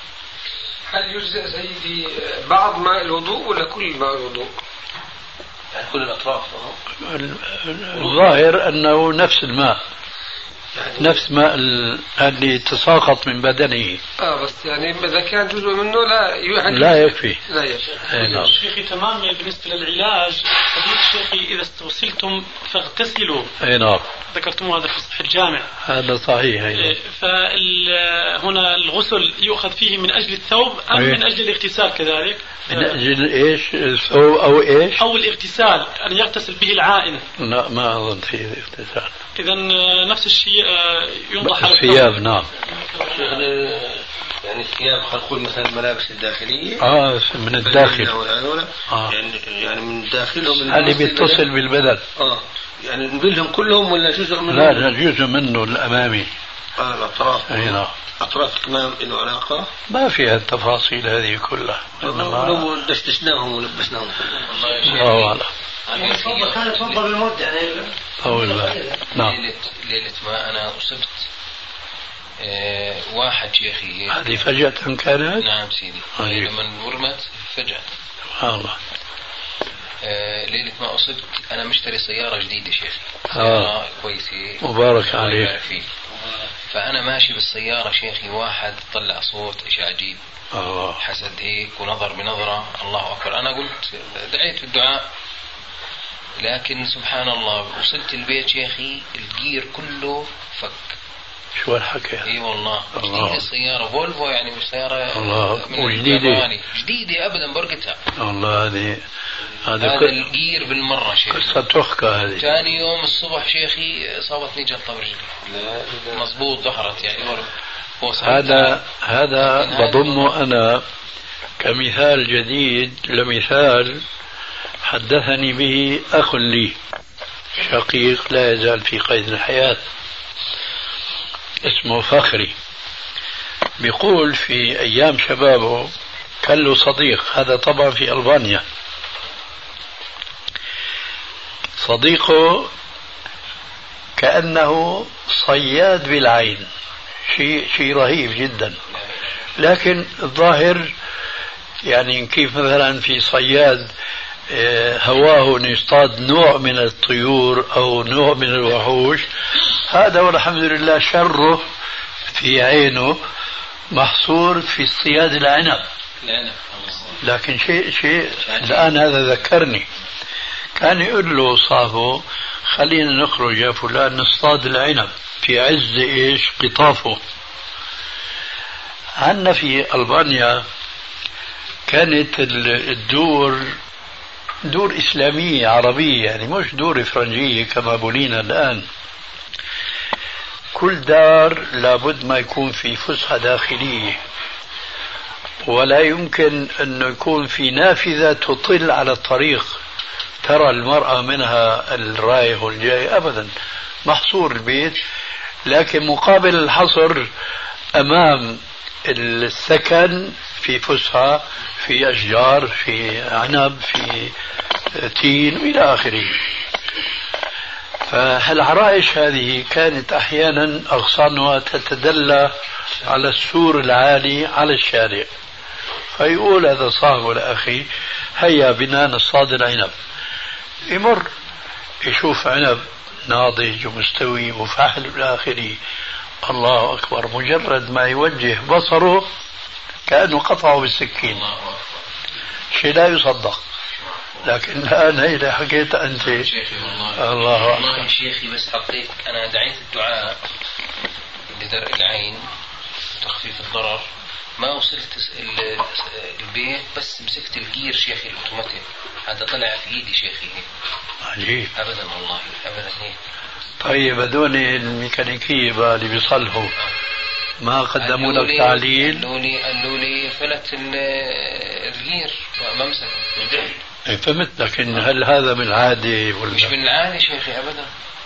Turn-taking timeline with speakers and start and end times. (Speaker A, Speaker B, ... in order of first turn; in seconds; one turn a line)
Speaker A: 0.9-4.5
Speaker B: 5.7-6.8
Speaker C: 7.0-9.8
Speaker B: 8.0-8.3
Speaker C: 11.0-14.0
Speaker A: 14.2-18.5
Speaker C: 16.7-17.4
Speaker D: 18.1-23.5
Speaker C: 18.1-18.6
Speaker C: 23.6-24.1
Speaker D: 24.3-25.7
Speaker C: 25.9-27.0
Speaker D: 26.7-33.0
Speaker C: 30.9-31.2
Speaker C: 32.7-35.0
Speaker D: 35.0-37.2
Speaker C: 37.4-39.1
Speaker D: 39.4-42.1
Speaker C: 41.4-42.5
Speaker B: 43.0-46.8
Speaker C: 46.8-48.1
Speaker B: 47.6-51.4
Speaker C: 48.9-49.1
Speaker C: 50.7-52.0
Speaker B: 52.2-54.9
Speaker C: 54.5-56.3
Speaker B: 56.8-59.7
Speaker C: 57.5-57.9
Speaker C: 59.9-62.7
Speaker B: 62.0-64.8
Speaker E: 64.5-65.4
Speaker C: 64.8-65.5
Speaker B: 65.9-67.9
Speaker E: 65.9-67.0
Speaker C: 68.2-69.4
Speaker E: 69.2-71.3
Speaker E: 72.4-74.4
Speaker C: 74.1-75.5
Speaker E: 75.4-77.9
Speaker C: 76.2-76.5
Speaker C: 78.4-78.8
Speaker E: 80.0-85.9
Speaker C: 83.3-83.7
Speaker C: 84.6-85.5
Speaker E: 86.7-90.2
Speaker C: 90.5-91.0
Speaker E: 91.0-95.1
Speaker E: 96.4-101.0
Speaker C: 101.6-102.3
Speaker E: 102.2-108.0
Speaker C: 103.0-103.4
Speaker C: 105.1-106.5
Speaker C: 108.2-109.0
Speaker C: 109.7-110.1
Speaker E: 109.8-111.6
Speaker C: 111.3-112.4
Speaker E: 112.3-115.4
Speaker B: 115.5-116.3
Speaker E: 116.1-117.5
Speaker E: 118.0-118.8
Speaker C: 118.2-120.8
Speaker E: 119.4-120.3
Speaker C: 121.6-124.0
Speaker C: 124.8-126.8
Speaker C: 127.6-129.8
Speaker C: 131.6-132.6
Speaker C: 133.8-138.6
Speaker C: 141.8-142.7
Speaker C: 144.2-146.7
Speaker C: 147.3-148.8
Speaker C: 149.6-150.9
Speaker C: 151.8-153.9
Speaker C: 154.5-159.3
Speaker C: 159.9-161.7
Speaker C: 162.3-163.2
Speaker C: 163.9-165.8
Speaker E: 166.2-167.2
Speaker C: 167.2-169.9
Speaker E: 168.4-168.9
Speaker C: 170.8-177.2
Speaker C: 179.2-180.6
Speaker C: 181.9-183.8
Speaker C: 184.7-188.9
Speaker C: 190.7-194.2
Speaker C: 195.7-199.8
Speaker C: 200.4-203.5
Speaker C: 204.1-205.0
Speaker C: 205.7-207.3
Speaker C: 207.9-214.3
Speaker C: 214.9-216.4
Speaker C: 218.1-225.3
Speaker C: 226.1-229.9
Speaker C: 230.9-231.3
Speaker C: 232.0-235.8
Speaker C: 236.4-239.3
Speaker C: 240.1-241.4
Speaker E: 241.2-242.0
Speaker C: 242.7-243.6
Speaker C: 244.4-246.5
Speaker E: 246.2-250.4
Speaker C: 247.2-248.1
Speaker E: 251.5-252.4
Speaker E: 253.2-254.1
Speaker E: 254.6-260.7
Speaker C: 261.2-261.7
Speaker E: 261.8-263.2
Speaker C: 263.8-266.8
Speaker C: 267.6-269.2
Speaker E: 268.0-273.7
Speaker C: 274.1-276.7
Speaker E: 276.5-277.9